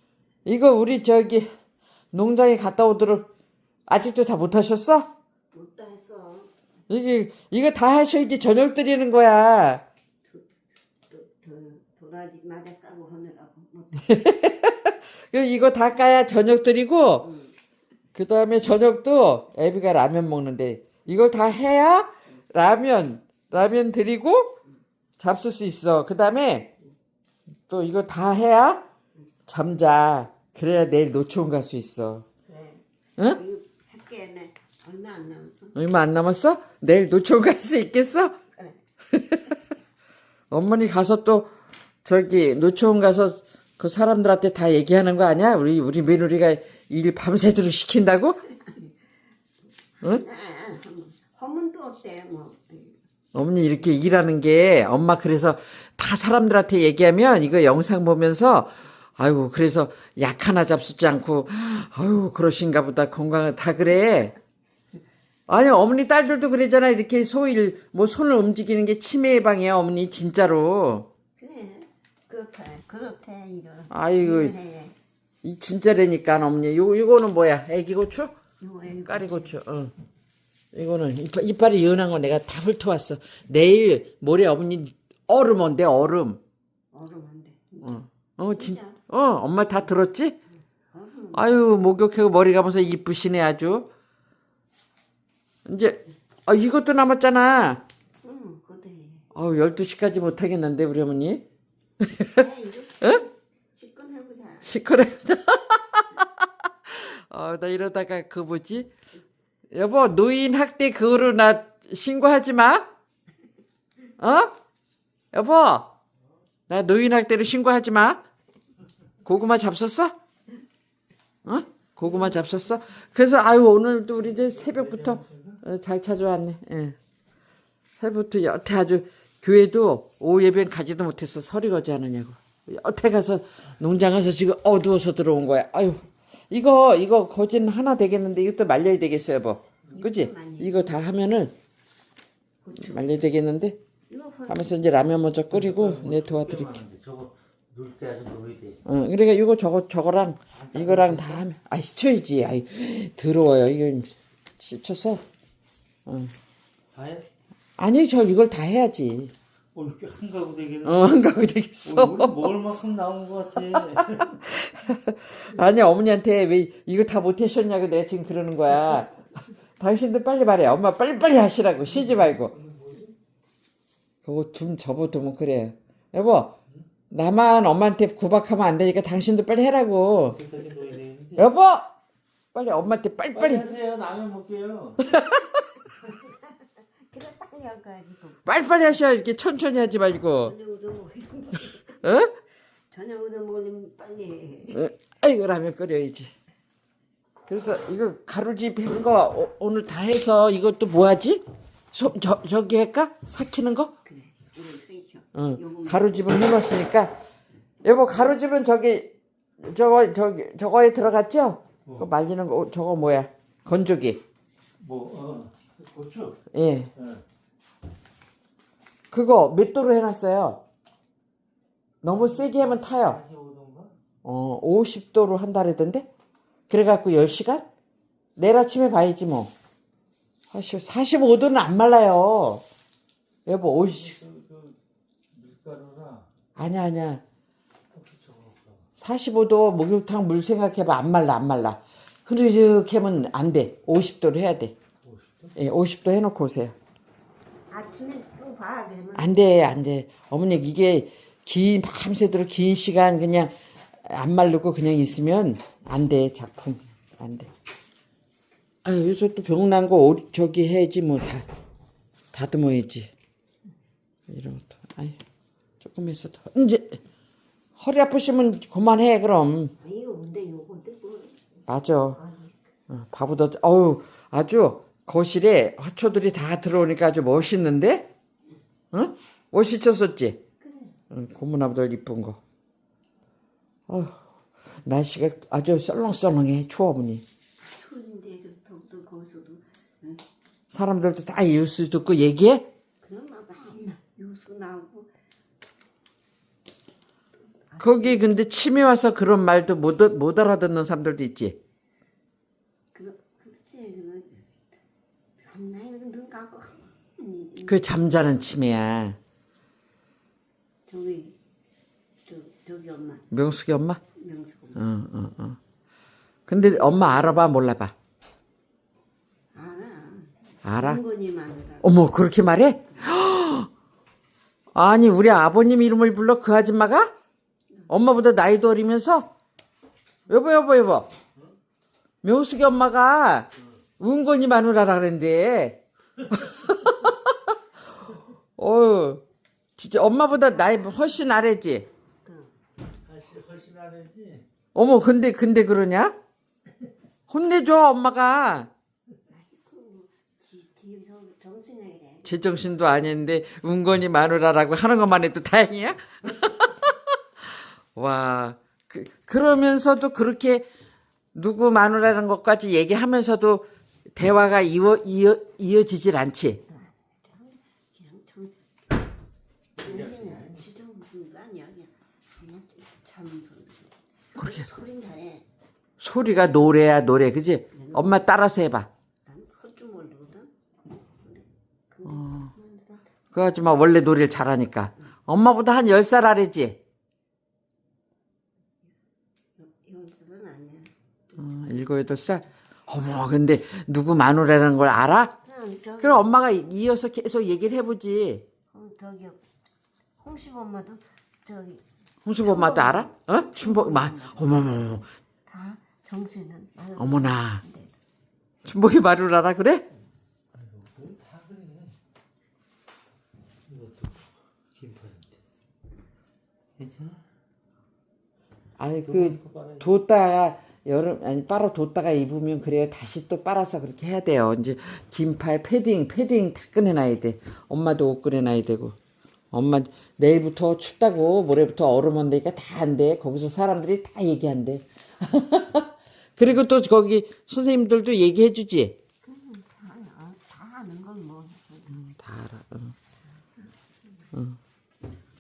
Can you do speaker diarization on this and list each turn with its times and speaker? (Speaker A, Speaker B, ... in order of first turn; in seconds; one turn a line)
Speaker A: 0.5-1.5
Speaker A: 2.1-3.3
Speaker A: 3.9-5.1
Speaker B: 5.5-6.5
Speaker A: 6.9-9.8
Speaker B: 10.2-10.5
Speaker B: 11.1-14.3
Speaker A: 14.1-17.3
Speaker B: 17.2-17.6
Speaker A: 18.1-24.5
Speaker A: 25.2-26.7
Speaker A: 27.7-28.8
Speaker A: 29.5-32.2
Speaker B: 32.5-32.8
Speaker B: 33.4-35.8
Speaker A: 35.8-38.4
Speaker A: 39.1-39.6
Speaker A: 40.5-41.5
Speaker A: 42.0-48.4
Speaker B: 50.0-53.0
Speaker A: 53.3-64.3
Speaker A: 65.5-71.1
Speaker B: 71.4-75.0
Speaker A: 73.9-74.5
Speaker A: 75.4-78.3
Speaker B: 78.6-79.5
Speaker A: 79.1-79.9
Speaker A: 80.7-86.4
Speaker B: 86.9-89.0
Speaker A: 87.8-90.4
Speaker B: 90.9-91.6
Speaker A: 91.3-93.9
Speaker A: 95.7-97.8
Speaker B: 98.2-99.3
Speaker A: 99.3-101.4
Speaker A: 102.0-102.3
Speaker B: 102.3-104.8
Speaker A: 104.7-106.3
Speaker A: 106.9-108.9
Speaker A: 109.7-112.9
Speaker A: 114.2-114.5
Speaker A: 115.3-115.9
Speaker A: 116.7-118.2
Speaker A: 119.2-120.1
Speaker A: 121.5-127.0
Speaker C: 124.3-125.6
Speaker A: 128.0-141.5
Speaker B: 139.9-141.0
Speaker B: 142.6-143.1
Speaker A: 142.8-143.8
Speaker B: 144.1-144.8
Speaker A: 144.5-146.8
Speaker C: 145.5-148.8
Speaker A: 148.8-155.2
Speaker C: 150.5-151.5
Speaker A: 156.1-156.3
Speaker C: 156.9-157.3
Speaker A: 157.8-159.3
Speaker C: 159.7-161.2
Speaker A: 160.8-162.5
Speaker C: 161.8-164.4
Speaker A: 163.8-169.2
Speaker A: 169.8-172.5
Speaker C: 171.9-173.1
Speaker A: 174.2-176.6
Speaker A: 177.1-180.4
Speaker C: 180.3-181.5
Speaker A: 181.4-181.9
Speaker A: 182.5-183.7
Speaker C: 183.3-185.1
Speaker A: 185.0-185.9
Speaker B: 187.1-189.0
Speaker A: 188.4-190.6
Speaker B: 190.3-192.0
Speaker A: 192.0-192.3
Speaker B: 192.9-194.8
Speaker A: 194.7-196.3
Speaker A: 197.5-201.4
Speaker A: 201.9-203.9
Speaker B: 204.0-206.3
Speaker A: 205.3-207.1
Speaker A: 207.8-214.2
Speaker C: 214.8-216.4
Speaker A: 216.5-216.9
Speaker C: 217.0-217.2
Speaker A: 219.1-220.6
Speaker A: 222.0-223.2
Speaker C: 222.0-223.9
Speaker A: 224.2-226.1
Speaker A: 226.7-227.7
Speaker A: 228.4-229.5
Speaker A: 230.5-232.6
Speaker A: 233.5-234.2
Speaker C: 233.8-234.8
Speaker C: 235.3-236.3
Speaker A: 236.6-237.2
Speaker C: 237.9-238.9
Speaker A: 239.0-244.8
Speaker C: 245.0-245.6
Speaker A: 245.6-246.7
Speaker B: 247.7-249.4
Speaker A: 249.2-253.5
Speaker A: 254.0-257.5
Speaker A: 258.9-261.5
Speaker A: 262.3-263.1
Speaker A: 264.3-265.2
Speaker A: 265.8-267.0
Speaker A: 267.8-269.7
Speaker B: 269.8-272.6
Speaker A: 271.7-272.2
Speaker A: 272.9-278.1
Speaker A: 278.9-280.4
Speaker B: 280.6-281.0
Speaker A: 281.1-282.4
Speaker A: 283.9-284.2
Speaker A: 284.9-287.2
Speaker B: 287.6-290.2
Speaker A: 290.7-292.7
Speaker B: 293.0-295.1
Speaker B: 297.7-298.8
Speaker A: 297.8-301.6
Speaker B: 302.9-304.5
Speaker B: 305.4-307.9
Speaker A: 307.6-309.2
Speaker B: 310.9-311.4
Speaker B: 312.2-313.3
Speaker A: 313.3-314.0
Speaker B: 314.2-314.9
Speaker A: 314.8-315.6
Speaker A: 316.5-317.9
Speaker B: 316.5-317.4
Speaker B: 319.5-321.9
Speaker A: 320.6-321.0
Speaker A: 321.8-323.7
Speaker A: 324.7-327.1
Speaker A: 327.9-329.3
Speaker A: 330.3-331.1
Speaker A: 332.2-333.5
Speaker A: 334.0-337.5
Speaker A: 338.6-339.2
Speaker A: 339.8-341.9
Speaker B: 342.2-342.5
Speaker C: 343.0-344.5
Speaker A: 344.8-346.1
Speaker A: 347.3-348.7
Speaker B: 349.3-352.3
Speaker A: 352.2-356.9
Speaker A: 357.9-360.7
Speaker A: 361.4-366.6
Speaker B: 366.7-369.0
Speaker B: 369.8-375.5
Speaker C: 369.8-370.6
Speaker A: 374.4-374.7
Speaker A: 376.0-378.9
Speaker B: 377.8-378.3
Speaker B: 379.3-383.1
Speaker A: 382.1-382.5
Speaker A: 383.3-386.8
Speaker B: 389.6-390.9
Speaker A: 391.4-395.3
Speaker B: 395.4-396.3
Speaker A: 396.0-398.4
Speaker B: 398.7-399.4
Speaker B: 400.2-401.8
Speaker A: 402.2-405.1
Speaker B: 402.4-404.7
Speaker B: 405.5-407.9
Speaker A: 407.0-407.6
Speaker A: 408.6-409.8
Speaker C: 410.6-412.0
Speaker C: 413.7-415.4
Speaker C: 416.8-417.2
Speaker A: 418.8-428.9
Speaker C: 419.1-419.9
Speaker A: 429.5-438.9
Speaker B: 439.2-442.0
Speaker A: 441.9-442.9